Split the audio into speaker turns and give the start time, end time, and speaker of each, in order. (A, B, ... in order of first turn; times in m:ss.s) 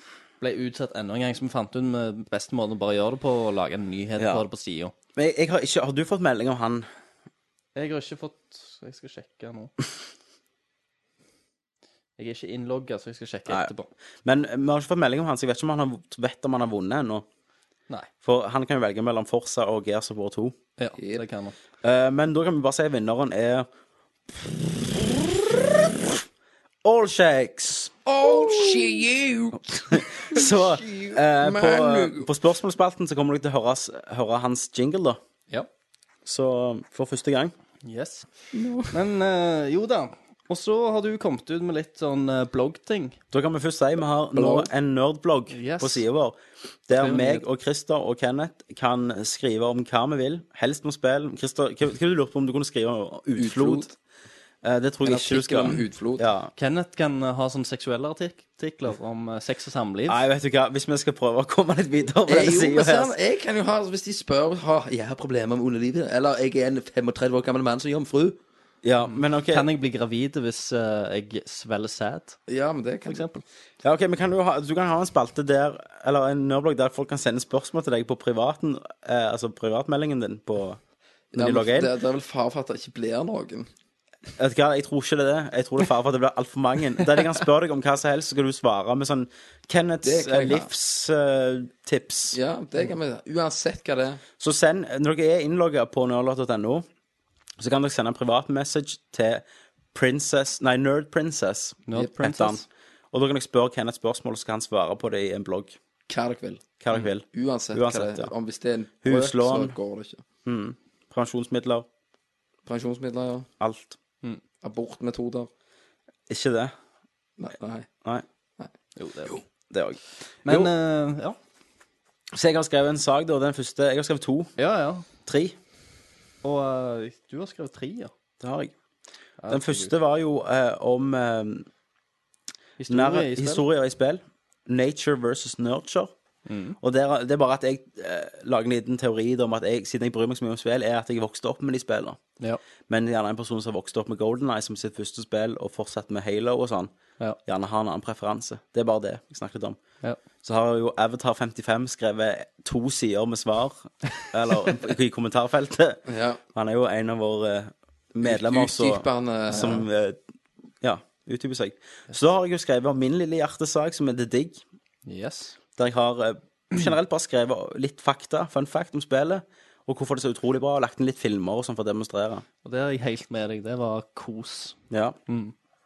0:00.4-0:04.9 A
0:04.2-0:04.4 B
0:05.1-0:06.9 B
0:07.7-0:09.7 A
0:12.2-0:13.9 A
0:14.2-0:17.2 B
0:18.2-0:20.6 B
0:20.8-0:21.5 A
0:21.0-0:21.2 C
0:21.8-0:23.7 B
0:26.8-0:28.0 B
0:28.1-0:32.3 C
0:29.8-0:35.2 B
0:36.2-0:37.5 B
0:37.8-0:38.3 A
0:38.5-0:38.9 B
0:38.9-0:43.2 A
0:43.3-0:53.9 B
0:44.3-0:44.7 C
0:45.5-0:46.0 A
0:46.9-0:47.4 A
0:53.4-0:53.9 C
0:54.6-0:56.5 B
0:55.0-0:56.2 C
0:56.6-1:00.2 A
1:00.1-1:03.1 B
1:02.3-1:08.4 C
1:08.8-1:09.6 B
1:09.1-1:12.4 A
1:12.5-1:13.2 C
1:13.1-1:13.4 A
1:13.8-1:20.8 B
1:21.3-1:21.9 B
1:21.3-1:23.7 C
1:24.4-1:32.4 B
1:30.0-1:30.7 C
1:32.3-1:34.2 C
1:34.4-1:36.8 B
1:37.6-1:45.8 B
1:41.9-1:42.6 A
1:46.1-1:46.7 C
1:46.8-1:48.3 B
1:47.3-1:50.2 C
1:49.0-1:49.8 B
1:50.4-1:51.9 B
1:52.6-1:53.5 C
1:53.6-1:54.0 B
1:54.6-1:55.5 C
1:56.3-1:56.7 B
1:57.4-1:57.9 C
1:59.0-1:59.4 A
1:59.7-2:00.7 B
2:00.4-2:01.4 A
2:02.3-2:04.5 B
2:04.6-2:05.0 A
2:05.2-2:05.6 B
2:06.4-2:08.1 A
2:08.4-2:08.7 B
2:09.4-2:09.9 A
2:09.5-2:11.7 B
2:12.8-2:13.6 A
2:12.9-2:16.1 B
2:16.4-2:16.8 A
2:16.8-2:22.2 B
2:22.9-2:26.9 B
2:27.4-2:29.8 B
2:30.4-2:36.0 B
2:36.1-2:36.4 C
2:36.5-2:40.2 B
2:38.2-2:39.8 C
2:40.8-2:44.6 B
2:45.0-2:45.5 A
2:45.8-2:52.4 B
2:52.6-2:54.8 A
2:54.9-2:55.2 B
2:55.3-2:55.5 A